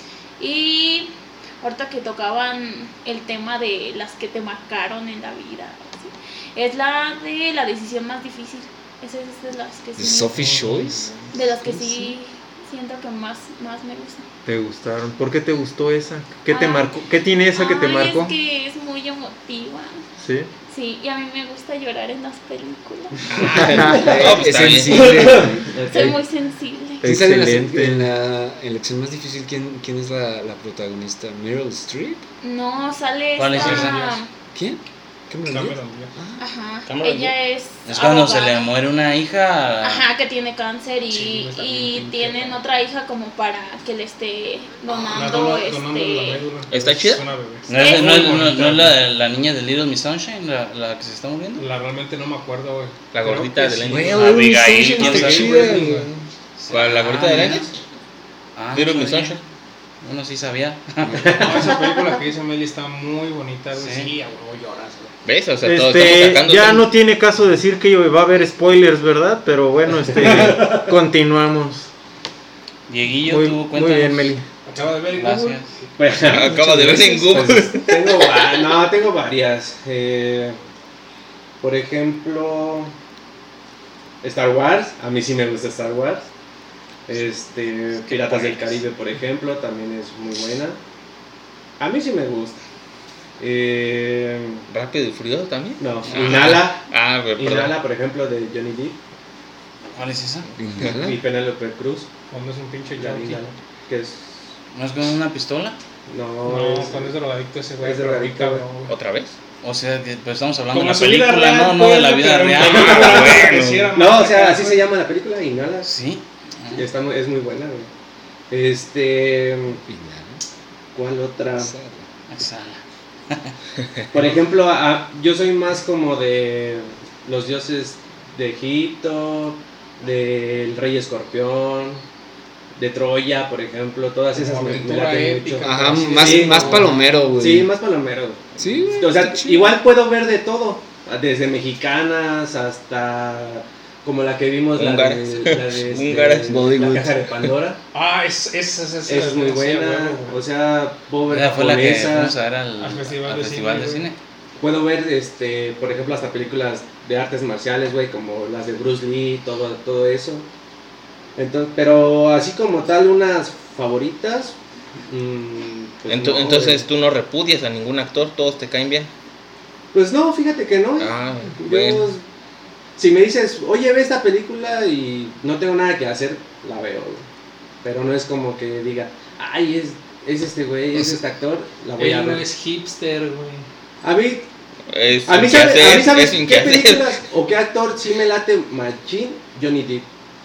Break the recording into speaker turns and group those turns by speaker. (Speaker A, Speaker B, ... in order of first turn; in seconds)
Speaker A: 0.4-10.5, 11.3-14.2, 16.5-17.0, 17.5-20.0, 20.7-23.3, 25.9-27.1, 32.4-34.3, 36.4-38.7, 39.8-46.5, 47.7-48.4
Speaker B: 10.0-11.1, 23.6-25.8, 27.0-32.2, 34.5-36.4, 53.9-56.1, 100.6-101.2, 119.9-120.4, 121.6-122.0, 135.6-137.7, 138.6-139.8, 146.5-147.3
Speaker C: 10.3-11.1, 33.5-34.2, 35.5-36.1, 41.1-42.6, 44.9-49.0, 51.6-54.0, 55.0-56.1, 61.3-65.1, 74.7-75.6, 102.3-103.4, 106.5-108.9, 110.7-114.9, 134.3-137.0, 147.9-150.3, 152.8-154.1, 182.0-183.7
Speaker D: 14.4-18.3, 20.2-20.5, 27.0-28.1, 65.6-71.9, 73.2-74.4
Speaker E: 23.3-25.4, 36.9-37.3, 46.7-47.2, 53.1-54.3, 56.7-57.7, 58.7-59.4, 65.3-66.9, 76.2-78.3, 88.3-88.6, 94.7-97.8, 108.9-109.3, 112.7-113.9, 144.7-146.6, 166.1-169.1, 171.0-172.1, 184.9-187.2
Speaker F: 23.9-26.2, 61.2-61.7, 70.2-70.9, 76.0-80.6, 81.6-82.9, 84.2-86.3, 87.1-90.8, 91.8-92.6, 93.4-94.7, 95.8-96.8, 97.4-99.0, 100.9-102.1, 103.0-104.3, 106.1-107.1, 107.8-108.7, 112.6-113.4, 113.9-115.9, 116.7-117.9, 118.5-119.8, 120.9-121.7, 124.1-132.0, 132.8-147.8, 149.1-152.3, 154.6-160.5, 161.4-164.6, 165.1-166.9, 169.9-172.2, 173.0-177.3, 177.8-182.5, 184.0-184.5, 185.3-190.1
Speaker G: 33.4-34.1, 37.9-40.1, 47.7-51.7, 54.0-55.8, 56.6-57.7, 58.6-59.4, 60.0-61.5, 63.8-64.1, 72.9-74.3, 75.1-75.7, 88.2-88.6, 100.0-100.5, 104.7-105.8, 109.6-113.7, 115.8-116.8, 122.3-123.5, 151.3-154.2